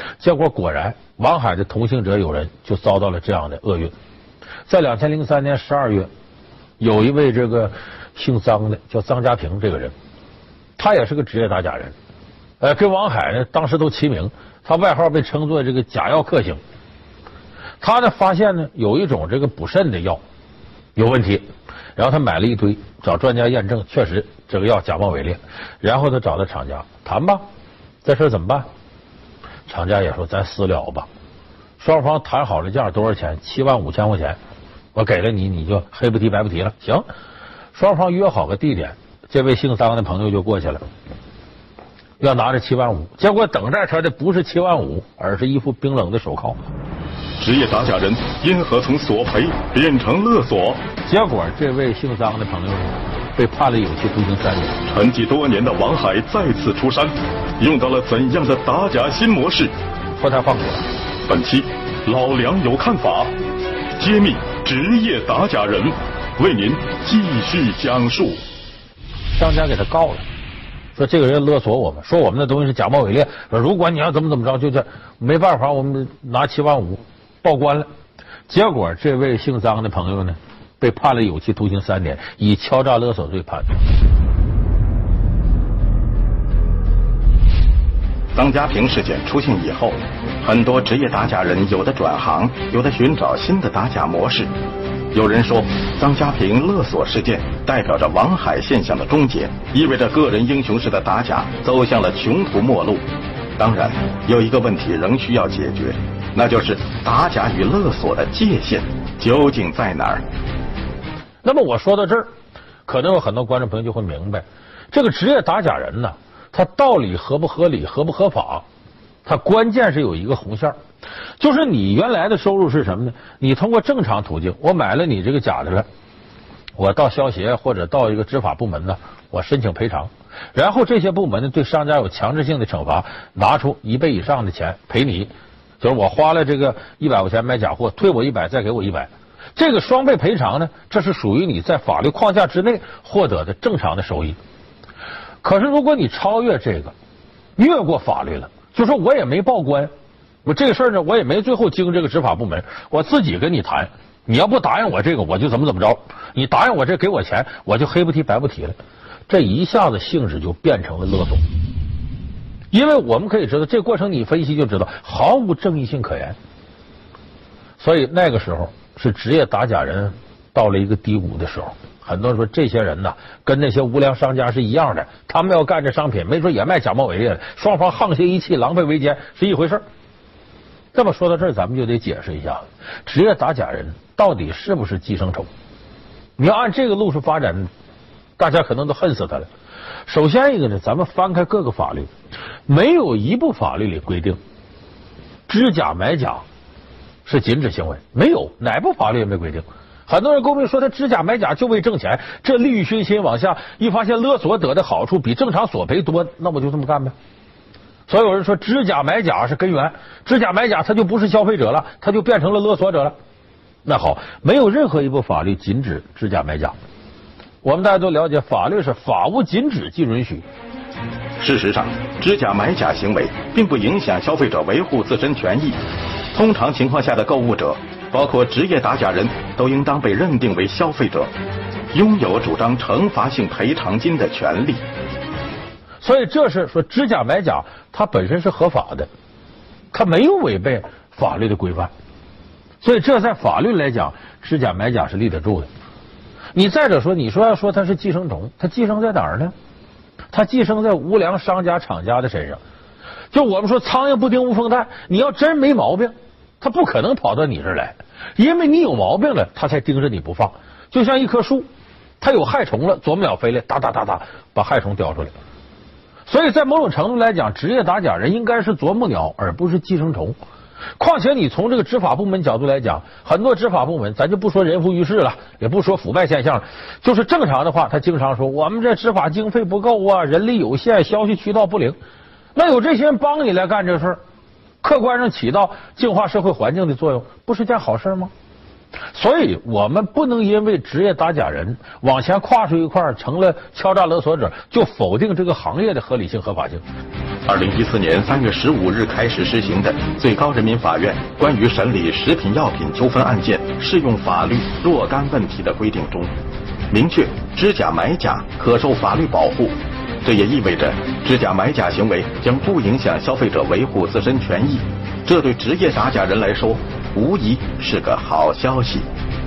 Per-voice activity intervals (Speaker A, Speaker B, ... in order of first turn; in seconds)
Speaker A: 0.2-3.9, 4.7-6.1, 6.8-9.9, 10.8-11.9, 12.6-16.6, 17.8-20.2, 21.0-27.4, 28.0-28.7, 29.7-31.1, 31.8-34.4, 35.0-37.0, 37.7-40.8, 42.2-46.6, 51.0-54.8, 60.2-60.9, 69.3-70.2, 71.0-77.9, 78.5-83.8, 111.4-112.3, 112.8-118.6, 119.2-120.8, 121.4-125.8, 126.8-144.4, 145.4-146.9, 147.6-149.9, 150.4-158.8, 159.3-161.4, 162.7-166.3, 167.8-179.8, 180.9-185.5, 186.4-187.7, 188.4-189.5, 190.1-192.1, 192.7-194.4, 195.5-196.4, 197.2-207.1, 208.1-213.2, 213.8-216.8, 217.6-220.4, 236.0-239.1, 239.9-241.9, 242.8-245.7, 246.5-249.5, 250.3-252.6, 253.3-261.7, 262.2-265.3, 266.3-270.4, 271.0-282.0, 282.5-284.2, 284.8-288.3, 289.1-296.8
Speaker B: 47.4-50.8, 54.9-59.8, 61.2-63.4, 64.0-68.4, 88.3-94.5, 95.1-103.0, 103.6-110.2, 221.4-225.8, 226.3-231.3, 231.9-234.8, 297.5-306.3, 306.9-319.1